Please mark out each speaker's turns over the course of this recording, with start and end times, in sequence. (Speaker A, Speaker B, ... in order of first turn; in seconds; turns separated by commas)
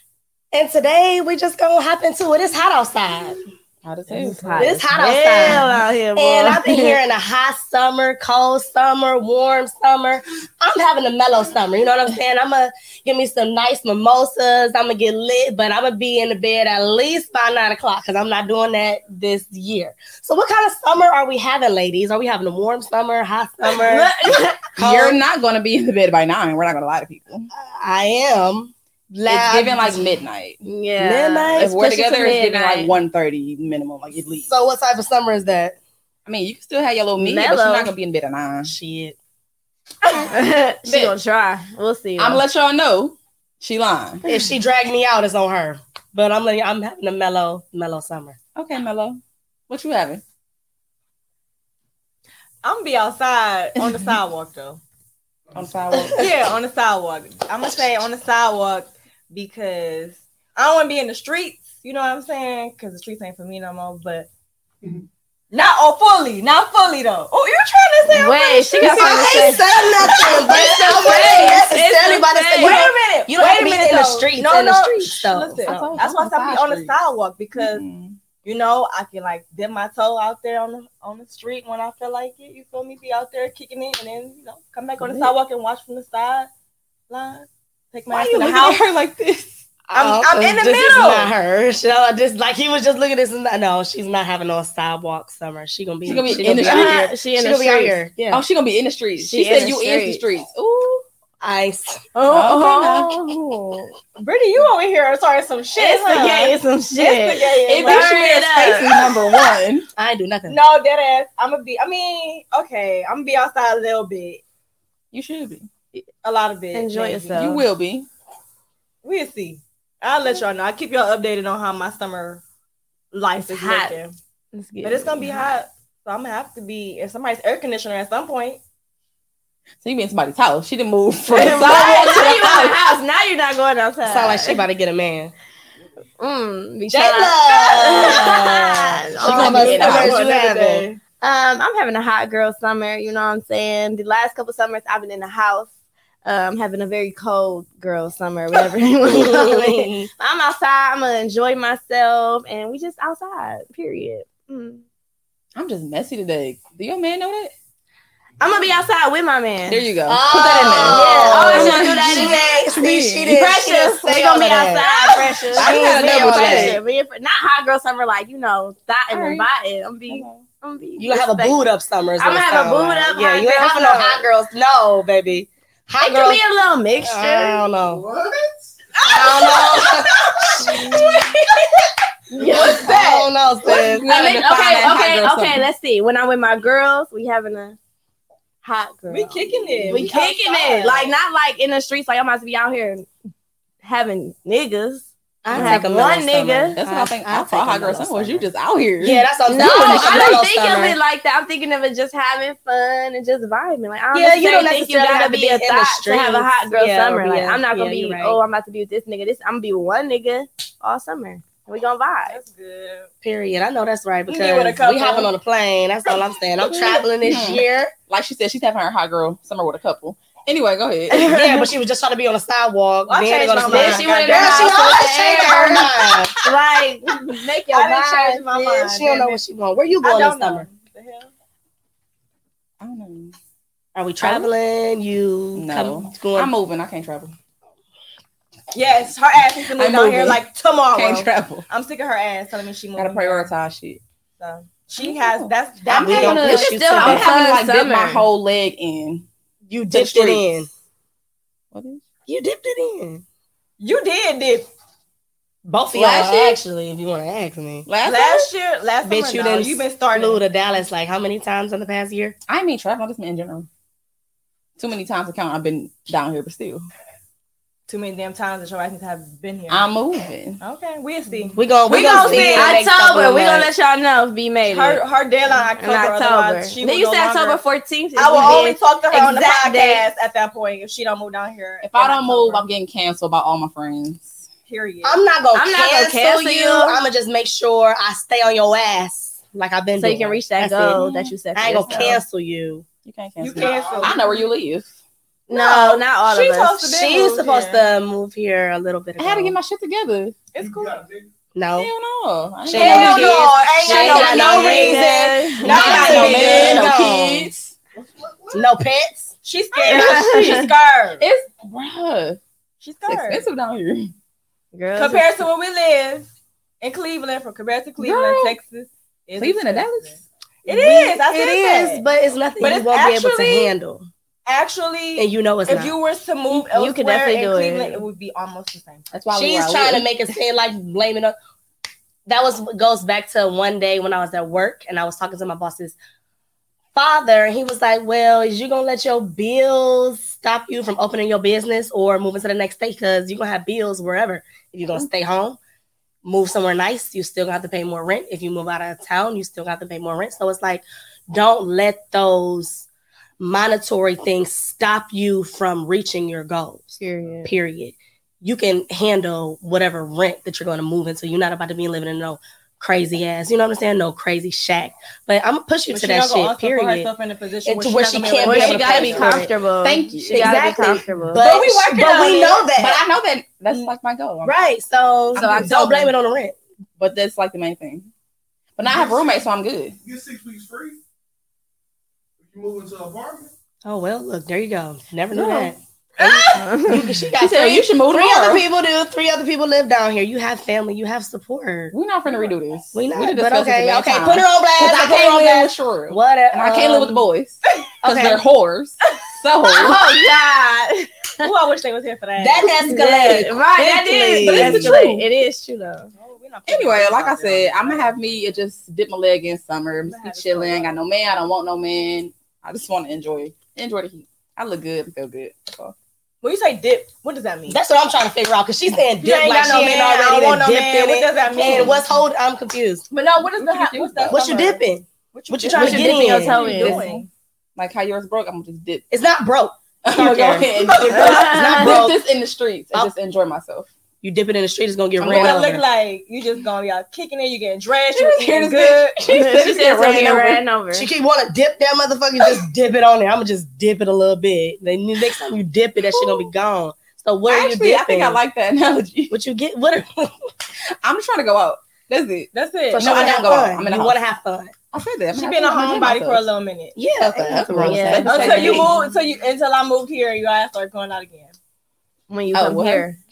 Speaker A: 0.5-3.4, Speaker B: 3.8-4.7, Speaker C: 4.1-7.0, Speaker A: 4.6-24.1, Speaker C: 23.7-24.6, Speaker A: 24.8-25.2, Speaker B: 24.8-27.5, Speaker A: 27.5-30.1, Speaker B: 29.3-30.6, Speaker C: 30.6-32.9, Speaker A: 31.0-31.8, Speaker B: 31.6-34.5, Speaker A: 34.5-35.8, Speaker B: 36.3-38.7, Speaker C: 37.1-37.9, Speaker A: 38.6-39.2, Speaker C: 40.0-42.4, Speaker B: 40.9-41.1, Speaker B: 42.2-44.2, Speaker A: 44.2-48.4, Speaker B: 48.6-50.2, Speaker D: 52.6-54.8, Speaker B: 53.8-54.1, Speaker E: 55.5-55.8, Speaker B: 55.5-56.3, Speaker A: 56.0-56.3, Speaker D: 56.2-64.3, Speaker D: 65.5-69.2, Speaker C: 68.1-72.8, Speaker A: 68.8-75.9, Speaker D: 70.0-71.5, Speaker D: 72.6-77.8, Speaker B: 75.7-76.9, Speaker B: 77.6-78.2, Speaker D: 78.4-86.5, Speaker B: 85.0-85.3, Speaker D: 87.1-88.8, Speaker B: 88.1-89.6, Speaker A: 89.9-98.4, Speaker D: 89.9-91.3, Speaker B: 96.0-97.1, Speaker C: 96.3-98.0, Speaker B: 98.3-101.0, Speaker C: 99.2-100.2, Speaker A: 101.4-102.0, Speaker C: 102.1-103.9, Speaker B: 102.3-103.2, Speaker D: 104.2-108.1, Speaker C: 105.8-109.5, Speaker B: 107.7-109.9, Speaker A: 110.0-110.6, Speaker D: 110.5-114.4, Speaker B: 115.1-115.7, Speaker D: 116.2-117.5, Speaker C: 116.7-117.6, Speaker B: 117.3-118.1, Speaker D: 119.0-122.4, Speaker D: 123.1-124.2, Speaker C: 123.5-124.0, Speaker C: 124.5-125.4, Speaker D: 124.8-128.6, Speaker B: 129.8-132.8, Speaker C: 131.3-134.7, Speaker A: 134.1-135.3, Speaker C: 136.2-139.8, Speaker A: 136.9-140.9, Speaker B: 139.2-140.2, Speaker D: 139.4-141.0, Speaker C: 141.2-145.7, Speaker C: 146.2-154.8, Speaker A: 149.1-150.1, Speaker B: 155.6-157.5, Speaker C: 158.4-159.8, Speaker B: 159.7-163.4, Speaker A: 160.1-166.8, Speaker C: 160.6-162.6, Speaker C: 163.3-171.6, Speaker B: 165.5-166.8, Speaker B: 169.1-169.5, Speaker B: 170.1-170.4, Speaker A: 171.0-176.4, Speaker C: 172.2-174.2, Speaker C: 176.0-177.7, Speaker A: 177.0-178.0, Speaker E: 177.8-179.1, Speaker A: 179.0-181.3, Speaker D: 179.1-181.0, Speaker E: 180.4-180.6, Speaker C: 180.6-181.3, Speaker B: 182.3-183.0, Speaker A: 182.4-184.1, Speaker D: 182.4-183.3, Speaker B: 183.6-185.7, Speaker C: 183.7-187.8, Speaker C: 188.6-193.1, Speaker D: 189.1-191.1, Speaker C: 193.8-196.8, Speaker A: 195.4-198.5, Speaker B: 195.5-195.9, Speaker B: 196.8-200.4, Speaker A: 199.0-201.0, Speaker C: 199.5-212.4, Speaker A: 204.1-208.4, Speaker D: 212.3-213.1, Speaker A: 213.2-217.9, Speaker D: 214.3-215.3, Speaker B: 216.7-221.3, Speaker C: 221.1-221.7, Speaker A: 221.3-226.4, Speaker D: 223.1-224.9, Speaker C: 223.7-225.9, Speaker B: 224.3-225.0, Speaker C: 226.4-228.5, Speaker D: 227.7-229.4, Speaker A: 228.5-230.7, Speaker D: 230.0-231.3, Speaker B: 232.8-233.3, Speaker A: 233.9-236.5, Speaker C: 234.2-234.5, Speaker B: 235.6-237.3, Speaker D: 238.7-243.5, Speaker B: 239.7-240.4, Speaker B: 240.9-241.7, Speaker B: 243.0-244.0, Speaker D: 244.4-246.6, Speaker B: 245.0-249.3, Speaker A: 245.9-247.3, Speaker C: 246.1-248.2, Speaker A: 249.7-250.7, Speaker B: 249.9-250.4, Speaker B: 251.7-252.0, Speaker A: 252.3-253.2, Speaker D: 253.8-254.7, Speaker A: 255.7-257.9, Speaker B: 255.9-256.6, Speaker B: 257.9-258.5, Speaker D: 258.0-260.4, Speaker A: 259.0-262.4, Speaker B: 262.5-263.7, Speaker B: 264.8-266.9, Speaker D: 267.9-269.9, Speaker B: 269.7-270.6, Speaker D: 270.6-272.8, Speaker A: 271.6-273.7, Speaker C: 272.3-275.0, Speaker D: 274.7-277.6, Speaker C: 275.8-280.1, Speaker D: 278.2-282.6, Speaker B: 281.8-284.4, Speaker D: 284.7-285.2, Speaker A: 285.0-291.0, Speaker C: 285.5-287.0, Speaker C: 290.0-292.2, Speaker B: 291.0-291.3, Speaker A: 291.6-292.9, Speaker B: 291.9-292.1, Speaker B: 293.1-294.9, Speaker D: 293.4-294.5, Speaker E: 293.5-294.2, Speaker C: 295.5-296.9, Speaker A: 295.5-296.0, Speaker D: 296.2-297.9, Speaker A: 296.8-299.6, Speaker B: 299.2-300.4, Speaker D: 300.5-301.0, Speaker E: 300.6-301.3, Speaker A: 301.5-301.9, Speaker B: 301.8-304.8, Speaker A: 302.6-307.5, Speaker D: 302.7-307.0, Speaker C: 304.0-306.3, Speaker B: 305.6-307.8, Speaker E: 307.9-308.7, Speaker A: 308.5-309.3, Speaker D: 309.4-311.2, Speaker B: 309.8-310.7, Speaker C: 309.9-310.7, Speaker B: 311.2-312.4, Speaker D: 312.8-313.5, Speaker B: 313.1-314.1, Speaker C: 314.7-315.4, Speaker D: 315.0-316.3, Speaker D: 316.8-322.0, Speaker B: 318.0-318.6, Speaker B: 319.4-320.2, Speaker A: 320.7-324.1, Speaker D: 322.6-323.7, Speaker D: 324.5-329.1, Speaker A: 325.2-325.9, Speaker C: 326.5-328.0, Speaker B: 329.1-330.1, Speaker A: 329.3-331.4, Speaker A: 332.3-336.0, Speaker A: 336.9-345.6, Speaker A: 346.2-352.9, Speaker A: 353.4-367.1, Speaker C: 357.0-357.5, Speaker D: 365.9-369.4, Speaker A: 367.6-369.5, Speaker C: 368.4-371.5, Speaker B: 369.0-370.7, Speaker A: 370.3-373.0, Speaker D: 371.4-372.7, Speaker B: 372.8-374.6, Speaker A: 374.4-376.6, Speaker B: 375.4-375.8, Speaker C: 375.4-376.1, Speaker B: 377.0-378.1, Speaker B: 378.8-380.0, Speaker E: 378.8-379.5, Speaker E: 380.0-381.0, Speaker E: 382.4-383.5, Speaker A: 383.9-391.9, Speaker B: 385.3-385.7, Speaker C: 386.5-387.1, Speaker B: 387.4-388.6, Speaker B: 391.9-400.0, Speaker A: 392.9-397.2, Speaker A: 398.0-398.4, Speaker C: 399.7-401.5, Speaker D: 401.4-402.7, Speaker A: 402.4-405.0, Speaker C: 402.8-406.1, Speaker B: 404.4-405.2, Speaker D: 406.1-408.5, Speaker B: 406.7-415.9, Speaker D: 410.1-411.0, Speaker D: 416.4-417.8, Speaker A: 417.7-423.1, Speaker D: 419.2-422.0, Speaker B: 421.6-422.0, Speaker D: 423.1-424.8, Speaker B: 423.5-424.4, Speaker A: 424.3-426.7, Speaker D: 425.3-427.3, Speaker C: 425.8-427.0, Speaker B: 425.8-427.2, Speaker B: 427.8-429.1, Speaker A: 429.1-432.2, Speaker B: 430.1-433.9, Speaker C: 431.1-432.0, Speaker A: 434.2-435.8, Speaker B: 435.2-435.6, Speaker D: 435.2-439.7, Speaker B: 438.1-440.6, Speaker C: 439.3-441.1, Speaker A: 440.9-448.4, Speaker B: 446.0-446.5, Speaker B: 447.5-449.4, Speaker A: 449.3-450.3, Speaker B: 451.0-454.2, Speaker D: 452.5-453.5, Speaker A: 452.9-454.7, Speaker B: 454.9-456.4, Speaker D: 455.3-457.0, Speaker A: 457.0-458.9, Speaker B: 457.2-458.9, Speaker C: 457.8-458.7, Speaker D: 458.2-461.5, Speaker C: 462.3-463.2, Speaker B: 462.5-463.1